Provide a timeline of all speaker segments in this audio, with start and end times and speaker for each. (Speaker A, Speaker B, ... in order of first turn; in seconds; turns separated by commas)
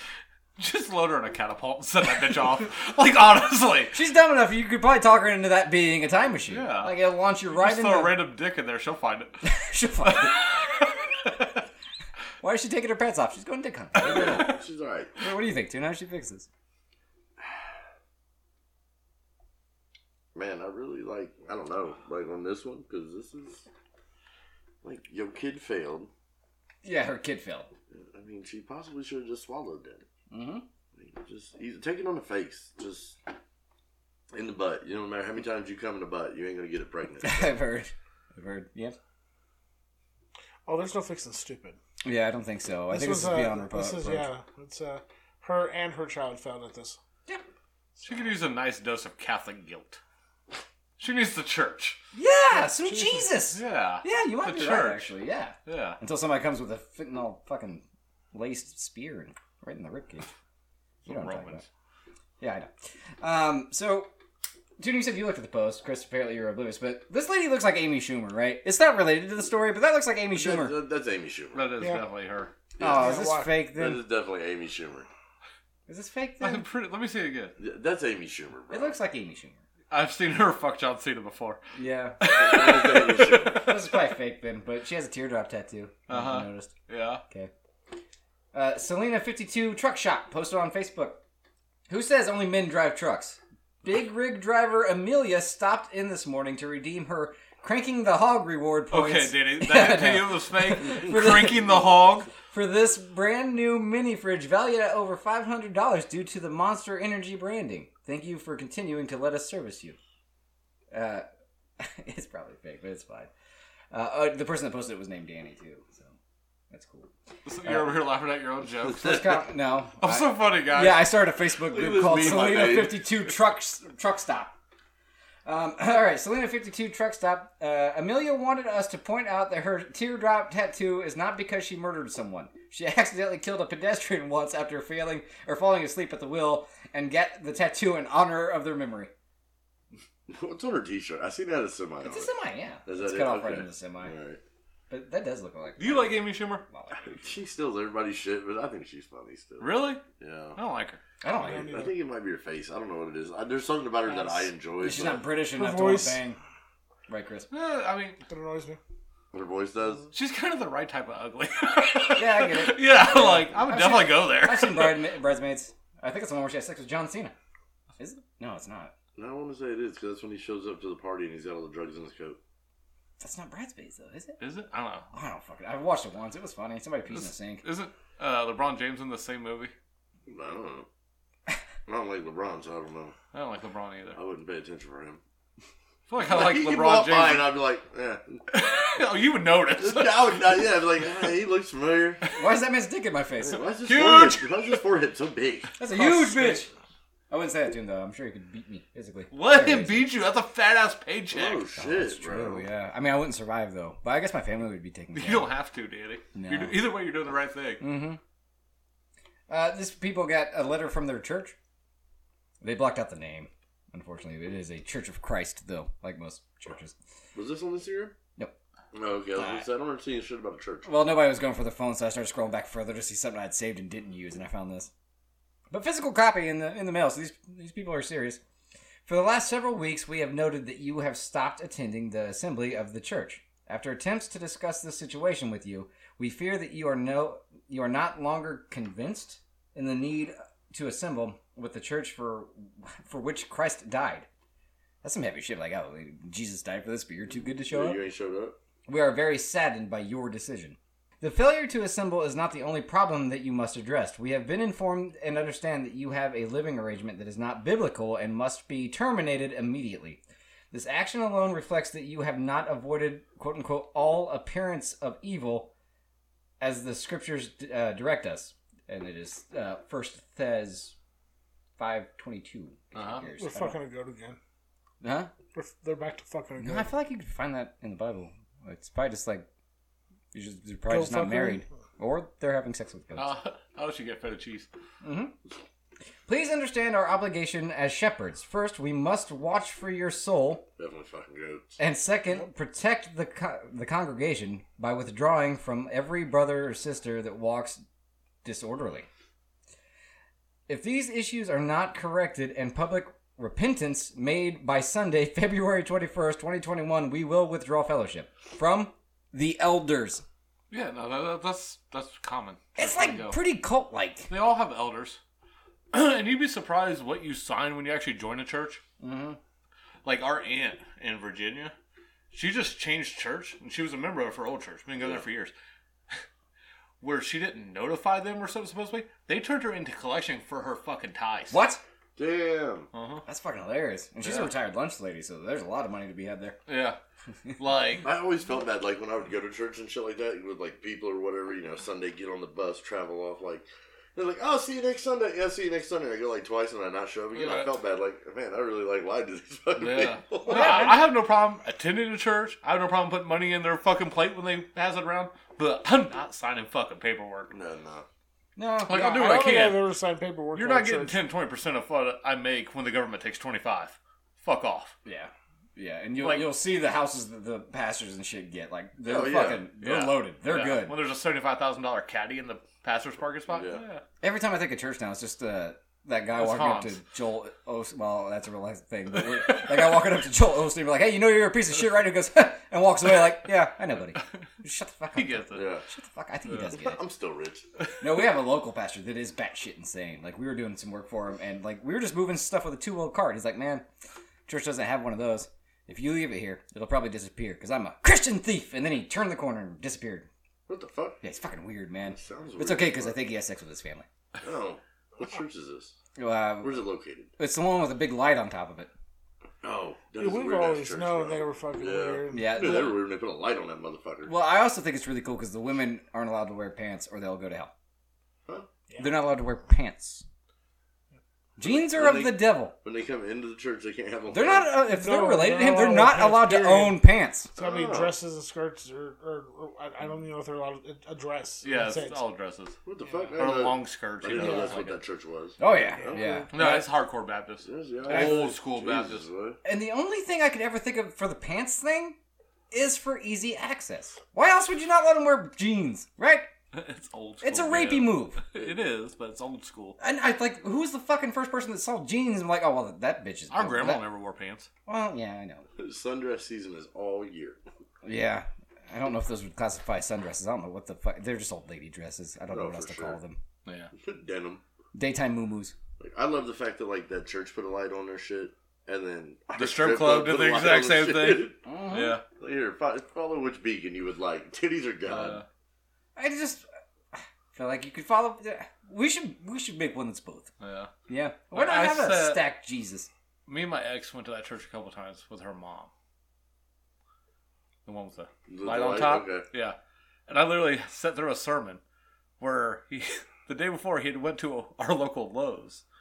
Speaker A: 0.6-3.9, Speaker B: 3.9-8.2, Speaker A: 6.5-7.0, Speaker A: 7.5-9.4, Speaker B: 9.4-10.4, Speaker A: 10.0-11.1, Speaker B: 12.4-14.6, Speaker C: 14.0-15.1, Speaker A: 14.1-14.5, Speaker B: 15.2-16.5, Speaker C: 20.3-23.6, Speaker C: 24.8-26.1, Speaker B: 26.8-27.7, Speaker C: 27.9-30.0, Speaker B: 30.3-30.6, Speaker C: 30.9-33.2, Speaker C: 34.3-37.5, Speaker B: 37.2-39.0, Speaker D: 40.6-41.8, Speaker B: 42.0-44.3, Speaker D: 42.9-47.0, Speaker A: 48.0-50.0, Speaker A: 51.0-52.0, Speaker B: 52.1-60.3, Speaker D: 52.5-53.3, Speaker A: 53.5-55.1, Speaker A: 55.6-56.0, Speaker B: 61.0-61.6, Speaker A: 61.0-61.6, Speaker B: 62.4-64.1, Speaker B: 64.8-70.7, Speaker C: 70.3-71.7, Speaker A: 71.5-72.5, Speaker B: 72.8-74.0, Speaker C: 72.8-75.1, Speaker D: 72.8-73.5, Speaker B: 75.9-76.7, Speaker A: 76.4-77.5, Speaker C: 77.6-78.9, Speaker B: 78.7-79.6, Speaker A: 79.9-81.6, Speaker B: 81.8-82.3, Speaker A: 82.2-83.7, Speaker C: 82.3-83.7, Speaker B: 83.4-86.7, Speaker A: 86.1-87.2, Speaker B: 88.5-91.2, Speaker B: 91.9-101.7, Speaker A: 98.9-102.3, Speaker B: 102.3-110.0, Speaker B: 110.9-111.2, Speaker B: 111.8-113.3, Speaker B: 113.9-116.1, Speaker B: 116.7-117.1, Speaker A: 117.5-119.3, Speaker B: 117.6-118.0, Speaker B: 119.0-124.5, Speaker A: 120.0-121.1, Speaker C: 121.7-123.0, Speaker B: 125.4-139.1, Speaker C: 140.3-142.3, Speaker B: 142.0-144.1, Speaker C: 142.8-144.4, Speaker B: 144.9-147.3, Speaker A: 145.8-146.6, Speaker C: 147.1-150.6, Speaker A: 149.6-150.0, Speaker A: 150.6-151.0, Speaker B: 151.2-151.8, Speaker D: 151.4-151.9, Speaker C: 151.5-155.2, Speaker B: 154.8-156.4, Speaker D: 155.5-156.2, Speaker B: 157.1-157.5, Speaker A: 157.5-158.2, Speaker D: 158.3-158.8, Speaker C: 159.3-160.1, Speaker A: 160.1-165.1, Speaker B: 162.1-167.3, Speaker B: 168.0-168.9, Speaker C: 169.2-172.4, Speaker B: 173.2-174.4, Speaker A: 174.4-175.1, Speaker B: 175.1-177.6, Speaker A: 177.1-179.7, Speaker C: 180.3-180.8, Speaker C: 181.9-183.1, Speaker A: 183.3-184.2, Speaker C: 184.2-185.2, Speaker A: 186.1-187.5, Speaker C: 186.2-188.4, Speaker A: 188.5-190.5, Speaker C: 189.8-192.2, Speaker B: 192.3-193.6, Speaker C: 193.4-195.7, Speaker A: 193.8-194.8, Speaker B: 195.8-196.7, Speaker A: 195.9-196.6, Speaker B: 197.3-200.1, Speaker A: 199.3-201.6, Speaker C: 201.3-202.6, Speaker B: 201.8-205.5, Speaker A: 205.1-207.8, Speaker B: 206.3-206.8, Speaker B: 207.8-208.2, Speaker B: 209.5-211.5, Speaker B: 212.6-216.9, Speaker C: 217.3-218.1, Speaker C: 218.9-220.9, Speaker B: 219.3-219.7, Speaker B: 220.8-224.9, Speaker B: 225.7-228.4, Speaker B: 229.1-244.3, Speaker B: 245.0-248.0, Speaker C: 247.6-248.6, Speaker B: 248.9-260.2, Speaker B: 260.7-265.7, Speaker B: 266.6-270.9, Speaker B: 271.8-273.8, Speaker A: 272.9-273.2, Speaker D: 273.4-274.4, Speaker B: 275.0-275.3, Speaker D: 275.5-276.9, Speaker B: 276.6-279.4, Speaker B: 280.3-283.3, Speaker D: 280.9-281.6, Speaker A: 283.1-284.7, Speaker B: 285.0-285.3, Speaker B: 286.3-290.6, Speaker C: 290.8-291.8, Speaker B: 291.8-297.8, Speaker B: 298.4-299.1, Speaker B: 300.7-310.2, Speaker A: 310.7-313.4, Speaker B: 312.8-314.3, Speaker A: 314.3-315.2, Speaker A: 315.9-318.8, Speaker B: 319.0-319.4, Speaker A: 320.0-321.7, Speaker A: 322.3-325.5, Speaker A: 327.0-331.6, Speaker B: 331.5-331.8, Speaker C: 332.1-332.9, Speaker A: 332.9-333.2, Speaker B: 333.2-336.6, Speaker A: 334.2-334.5, Speaker A: 336.7-337.0, Speaker A: 337.6-338.1, Speaker C: 338.0-350.9, Speaker A: 347.3-347.7, Speaker A: 349.8-357.5, Speaker B: 350.5-351.0, Speaker C: 357.5-358.1, Speaker B: 358.6-359.1, Speaker A: 358.9-359.9, Speaker D: 358.9-361.2, Speaker A: 360.5-364.9, Speaker B: 365.0-371.0, Speaker A: 366.2-366.5, Speaker C: 369.0-369.6, Speaker A: 369.8-374.0, Speaker C: 373.5-373.8, Speaker B: 374.2-387.0, Speaker A: 376.3-377.0, Speaker A: 385.1-385.6, Speaker C: 385.5-385.8, Speaker C: 386.7-387.6, Speaker B: 388.0-393.8, Speaker B: 394.5-400.3, Speaker C: 400.7-401.2, Speaker B: 401.2-404.1, Speaker C: 402.1-403.2, Speaker C: 404.4-405.9, Speaker B: 406.2-406.8, Speaker C: 406.6-407.3, Speaker B: 407.4-408.9, Speaker C: 409.6-414.3, Speaker D: 410.2-412.8, Speaker B: 412.3-413.0, Speaker B: 414.2-417.7, Speaker D: 418.9-419.1, Speaker B: 419.0-420.2, Speaker B: 421.6-422.7, Speaker C: 421.6-424.7, Speaker B: 424.3-427.5, Speaker D: 424.9-427.0, Speaker C: 427.6-428.1, Speaker D: 427.6-432.2, Speaker A: 431.6-432.8, Speaker C: 432.8-436.4, Speaker D: 433.0-433.4, Speaker A: 433.4-435.0, Speaker D: 434.4-434.7, Speaker B: 435.6-436.9, Speaker D: 436.1-436.4, Speaker A: 436.5-439.3, Speaker C: 437.6-439.6, Speaker B: 438.1-438.4, Speaker B: 439.6-442.2, Speaker B: 442.7-446.5, Speaker A: 446.7-450.0, Speaker B: 447.4-448.4, Speaker B: 450.0-454.0, Speaker A: 453.5-454.7, Speaker B: 454.9-455.6, Speaker C: 455.8-457.6, Speaker B: 458.0-463.4, Speaker C: 462.5-463.2, Speaker A: 463.6-463.9, Speaker C: 463.9-464.6, Speaker B: 464.9-465.8, Speaker C: 466.0-471.6, Speaker A: 469.6-472.2, Speaker B: 471.6-472.2, Speaker C: 472.3-475.4, Speaker A: 475.0-475.4, Speaker B: 476.1-480.5, Speaker A: 480.6-480.9, Speaker B: 481.1-483.1, Speaker A: 481.5-482.4, Speaker A: 483.5-485.9, Speaker A: 487.9-489.8, Speaker C: 488.5-489.4, Speaker A: 490.3-491.8, Speaker A: 492.4-495.8